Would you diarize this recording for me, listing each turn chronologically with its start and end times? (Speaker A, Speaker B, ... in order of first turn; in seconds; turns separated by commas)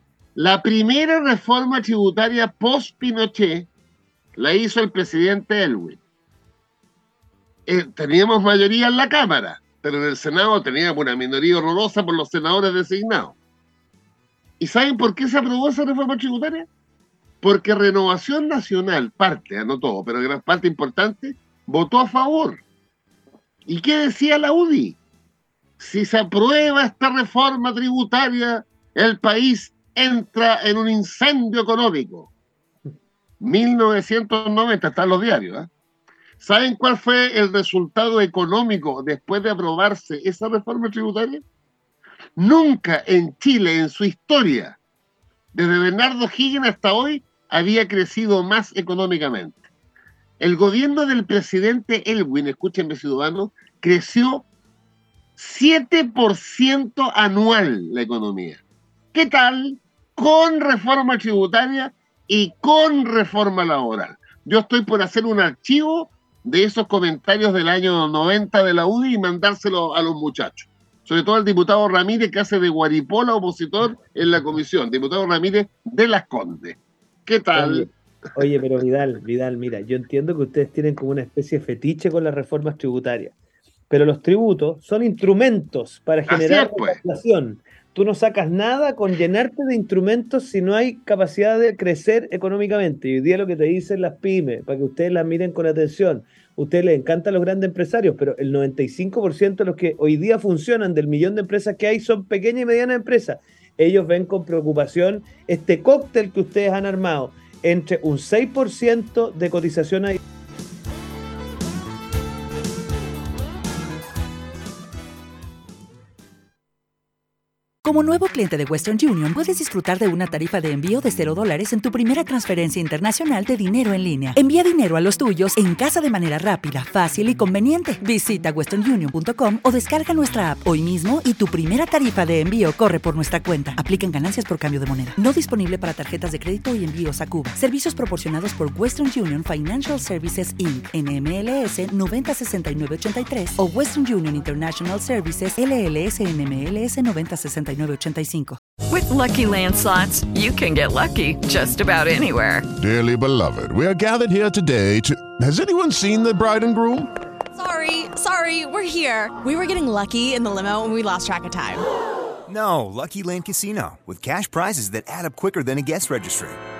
Speaker A: 0.4-3.7, Speaker A: 4.4-6.0, Speaker A: 7.7-13.4, Speaker A: 14.6-16.7, Speaker A: 17.4-22.6, Speaker A: 23.7-25.0, Speaker A: 25.8-32.3, Speaker A: 33.4-35.7, Speaker A: 36.4-41.4, Speaker A: 42.4-44.8, Speaker A: 45.5-49.6, Speaker A: 50.4-54.5, Speaker A: 55.4-58.6, Speaker A: 59.1-77.9, Speaker B: 77.5-83.3, Speaker B: 83.9-110.2, Speaker A: 86.3-87.0, Speaker C: 117.8-148.6, Speaker D: 148.9-152.7, Speaker E: 152.8-157.1, Speaker F: 157.6-161.8, Speaker G: 162.5-166.6